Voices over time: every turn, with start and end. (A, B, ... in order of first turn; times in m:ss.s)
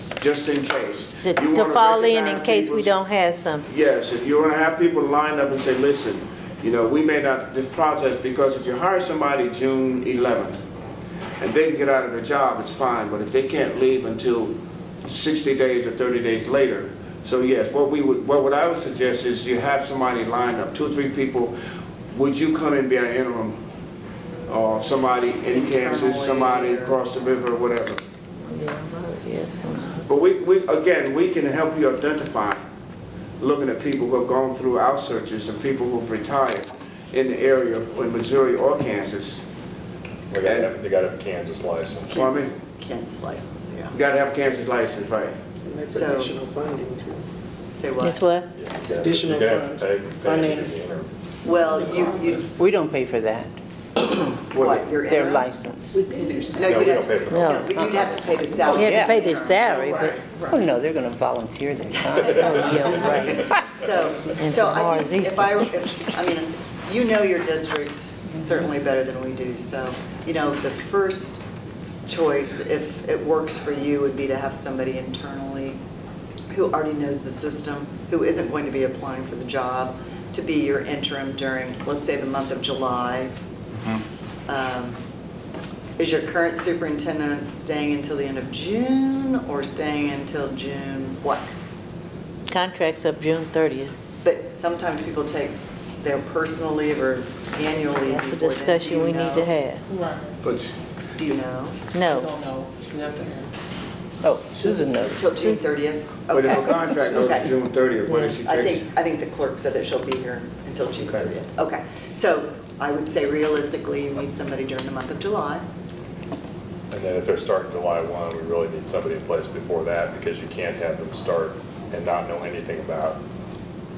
0:00.2-0:03.0 A
0:01.2-0:03.7 B
0:03.6-0:10.6 A
0:11.4-0:21.5 A
0:22.1-0:23.6 A
0:24.5-0:28.0 A
0:25.5-0:27.0 C
0:28.4-0:30.0 B
0:30.0-0:32.6 A
0:33.4-0:39.4 A
0:40.3-0:42.2 D
0:40.4-0:40.7 A
0:42.1-0:44.0 C
0:42.1-0:42.5 A
0:43.9-0:45.4 A
0:45.6-0:47.2 E
0:45.9-0:46.4 C
0:47.7-0:48.2 C
0:48.0-0:48.5 B
0:48.5-0:51.1 D
0:48.8-0:50.9 E
0:51.4-0:52.6 C
0:51.5-0:52.5 F
0:52.6-0:53.5 G
0:54.5-0:55.5 C
0:54.5-0:54.8 A
0:55.0-0:56.1 G
0:56.6-1:00.2 C
0:56.6-0:58.1 D
0:57.2-0:57.8 B
0:58.6-1:00.2 B
0:58.7-0:59.2 G
0:59.9-1:00.6 F
1:00.4-1:03.6 G
1:02.2-1:11.4 C
1:02.5-1:03.4 B
1:04.2-1:06.0 B
1:12.0-1:15.8 C
1:16.5-1:23.3 C
1:24.5-1:25.0 C
1:26.0-1:31.5 C
1:32.5-1:33.9 B
1:34.2-1:39.5 C
1:37.9-1:39.8 B
1:39.9-1:40.3 F
1:40.4-1:40.7 A
1:41.2-1:41.8 C
1:41.9-1:42.3 B
1:42.1-1:43.5 F
1:44.2-1:45.4 G
1:45.2-1:47.6 C
1:45.3-1:45.6 B
1:46.3-1:48.9 A
1:48.2-1:55.6 C
1:51.0-1:51.3 A
1:56.9-2:03.2 D